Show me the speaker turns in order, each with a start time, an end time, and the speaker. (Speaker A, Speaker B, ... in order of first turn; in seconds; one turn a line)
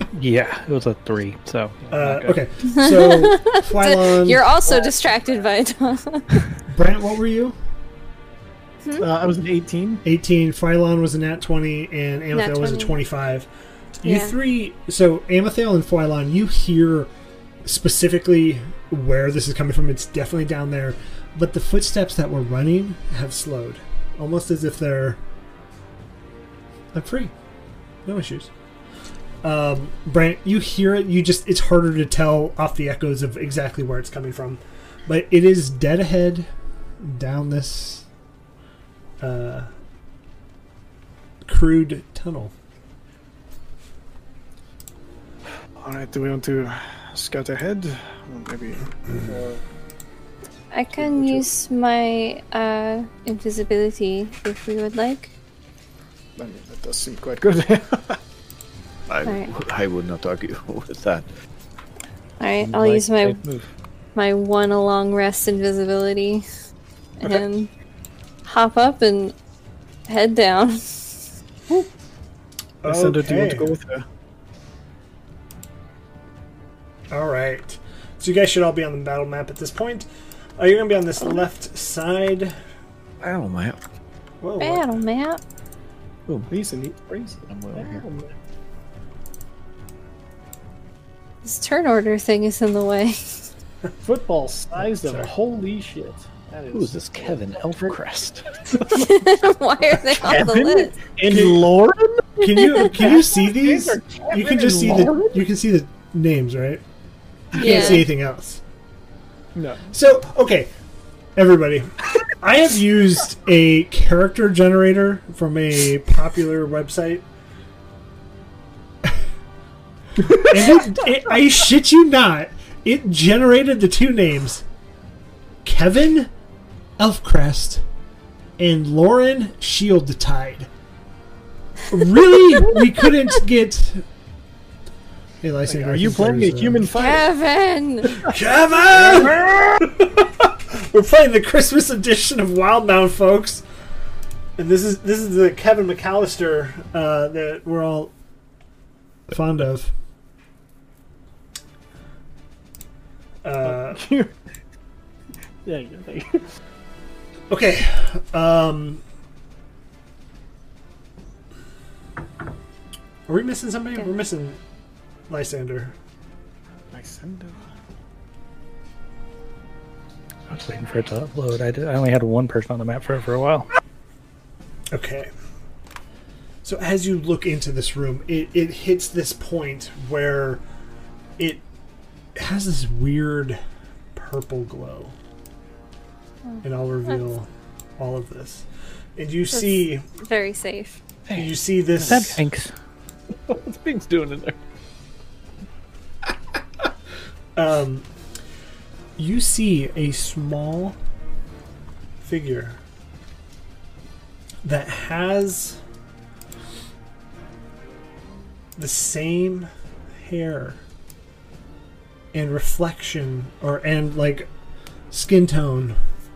Speaker A: 0.1-2.4
Speaker B: 1.9-4.5
Speaker C: 2.7-6.5
Speaker B: 6.7-7.6
Speaker D: 9.0-10.0
Speaker B: 10.0-17.1
Speaker C: 12.3-13.0
Speaker C: 14.0-14.4
Speaker B: 17.6-25.2
Speaker B: 26.9-27.3
Speaker B: 28.1-28.5
Speaker B: 29.4-36.5
Speaker B: 37.0-38.1
Speaker B: 39.2-39.7
Speaker B: 41.5-42.5
Speaker D: 45.8-49.6
Speaker C: 50.7-55.3
Speaker D: 51.0-51.5
Speaker D: 56.4-58.2
Speaker E: 59.1-61.3
Speaker C: 59.2-59.5
Speaker C: 62.4-63.4
Speaker A: 62.6-63.7
Speaker C: 64.2-66.5
Speaker C: 67.2-67.7
Speaker C: 68.5-69.3
Speaker C: 70.1-71.2
Speaker B: 72.8-73.7
Speaker D: 72.8-74.0
Speaker B: 77.1-82.6
Speaker E: 83.2-83.8
Speaker B: 84.4-85.0
Speaker C: 84.6-85.4
Speaker D: 86.5-88.3
Speaker E: 87.5-88.0
Speaker C: 91.4-93.5
Speaker D: 94.0-97.9
Speaker B: 95.0-95.3
Speaker E: 96.7-98.4
Speaker D: 98.8-99.0
Speaker C: 98.9-101.0
Speaker D: 100.0-105.4
Speaker B: 101.3-101.7
Speaker B: 102.4-106.8
Speaker C: 107.5-108.1
Speaker B: 107.5-108.6
Speaker D: 107.6-108.0
Speaker D: 109.5-109.9
Speaker B: 109.9-110.7
Speaker B: 111.4-117.2
Speaker B: 120.2-124.7
Speaker B: 125.6-126.3
Speaker B: 127.0-127.8
Speaker B: 128.6-130.7
Speaker B: 131.9-134.1
Speaker B: 135.4-136.9
Speaker D: 135.7-137.3
Speaker C: 136.9-138.2
Speaker B: 138.3-143.6
Speaker D: 139.0-139.6
Speaker B: 144.6-148.1
Speaker B: 149.3-149.9
Speaker B: 153.4-154.0
Speaker D: 153.6-154.3
Speaker D: 155.6-156.4
Speaker B: 157.5-159.0
Speaker B: 163.3-164.6
Speaker B: 165.3-165.9
Speaker D: 166.9-167.7
Speaker A: 170.5-173.7
Speaker B: 174.9-175.3
Speaker B: 176.6-180.6
Speaker B: 181.4-181.6
Speaker B: 182.4-183.6
Speaker B: 184.2-185.2
Speaker B: 186.6-190.0
Speaker C: 189.5-191.0
Speaker B: 191.3-192.4
Speaker A: 192.0-192.7
Speaker E: 193.5-194.6
Speaker B: 197.6-198.1
Speaker B: 199.2-201.0
Speaker B: 202.2-202.8
Speaker B: 204.6-205.8
Speaker B: 208.8-210.8
Speaker B: 212.3-214.5
Speaker B: 215.1-216.0